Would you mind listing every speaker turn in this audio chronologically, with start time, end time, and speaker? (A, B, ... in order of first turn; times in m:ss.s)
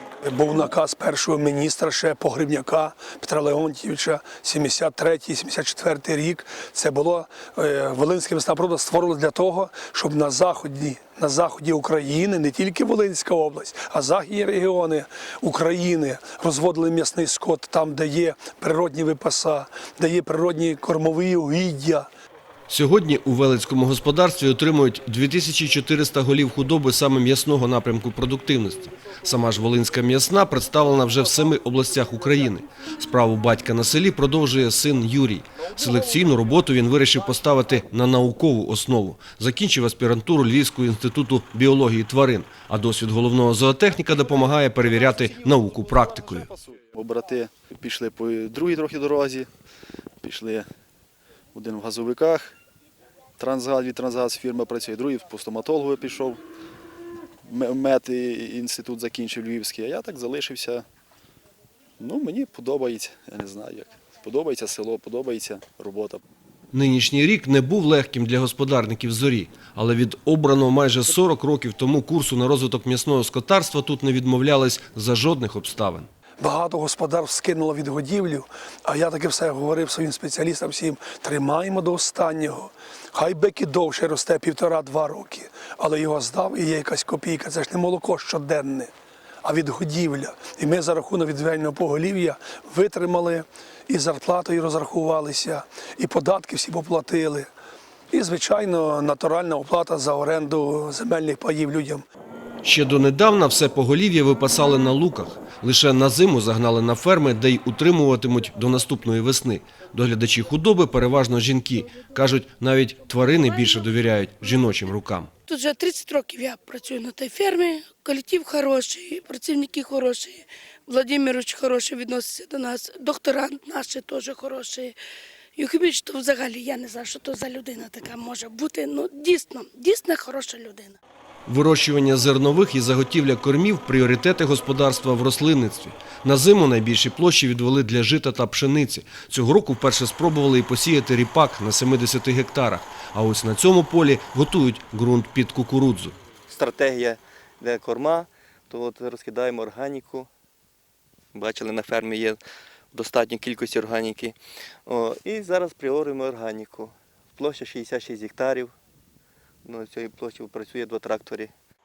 0:00.2-0:22.1 A
0:22.7-0:46.5 B
0:46.6-0:49.5 C
0:50.2-0:50.6 C
0:51.5-0:52.6 C
0:53.4-0:56.4 C
0:57.4-1:00.8 C
1:02.0-1:06.2 C
1:06.7-1:16.1 B
1:16.4-1:28.9 A
1:29.4-1:37.5 A
1:38.1-1:42.0 A
1:42.6-1:55.3 B
1:55.5-2:05.0 D
2:05.6-2:11.0 D
2:11.5-2:26.1 B
2:26.5-2:30.3 E
2:31.3-2:32.4 E
2:32.9-2:38.7 E
2:39.6-2:41.5 E